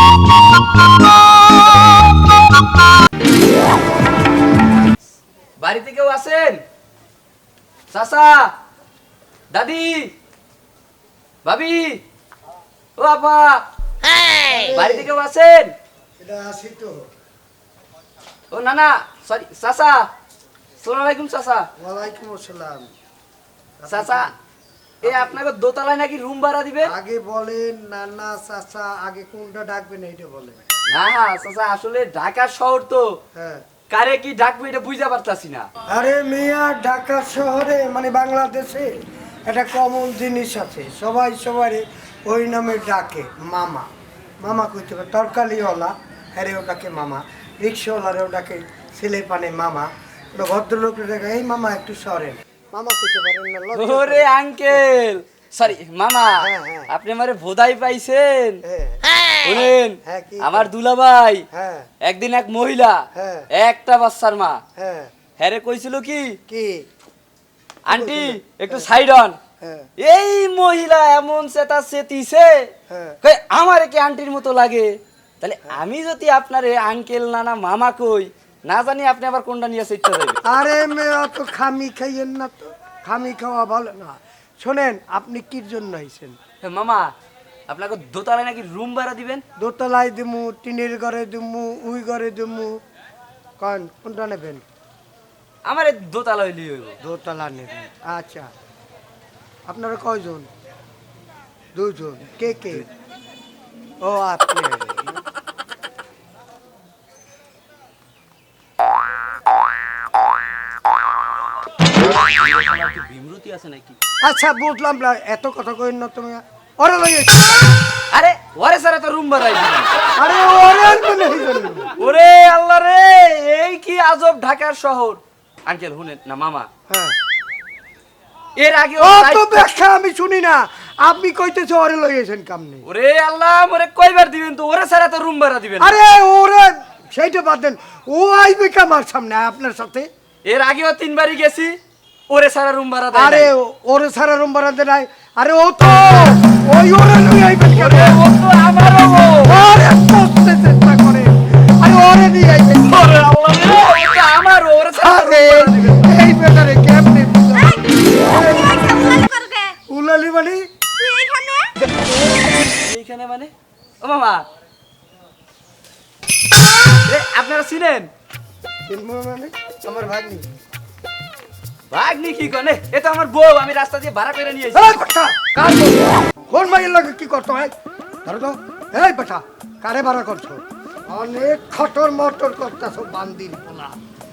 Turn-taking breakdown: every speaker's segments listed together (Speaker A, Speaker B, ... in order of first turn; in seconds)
Speaker A: 5.6-6.6, 7.9-8.5, 9.5-10.1, 11.4-12.0, 13.0-13.6, 14.5-15.7, 18.5-20.1, 20.8-21.7, 23.9-24.3, 25.0-26.9, 30.9-33.1, 33.9-35.7, 53.8-58.6, 59.4-61.4, 62.0-63.0, 63.5-64.6, 65.4-66.3, 67.9-69.4, 70.0-72.7, 73.2-80.4, 86.6-87.1, 87.7-89.4, 95.7-97.0, 112.0-114.0, 118.1-119.9, 122.0-126.7, 128.6-129.7, 132.8-136.0, 140.5-143.5, 147.7-149.6, 153.1-156.1, 162.8-164.5, 167.1-168.1, 171.9-174.9
Speaker B: 14.6-15.1, 16.2-17.0, 21.8-22.9, 23.8-24.3, 25.0-25.4, 26.8-30.6, 33.4-33.6, 35.9-38.9, 39.5-43.9, 44.4-54.9, 56.4-56.9, 58.7-59.0, 60.0-60.7, 61.5-61.9, 63.1-63.5, 64.8-65.1, 66.5-66.9, 67.9-68.9, 69.6-69.9, 72.9-73.2, 80.5-86.4, 89.6-92.8, 93.6-94.6, 97.0-98.5, 99.7-100.5, 101.8-102.9, 104.0-105.2, 114.2-117.8, 120.2-121.9, 126.9-127.2, 129.0-132.8, 135.8-140.1, 143.1-148.2, 149.2-153.7, 154.9-159.0, 159.9-160.7, 162.0-162.4, 168.9-170.5, 174.8-177.7, 178.2-184.0
Speaker C: 158.1-159.8, 161.0-161.7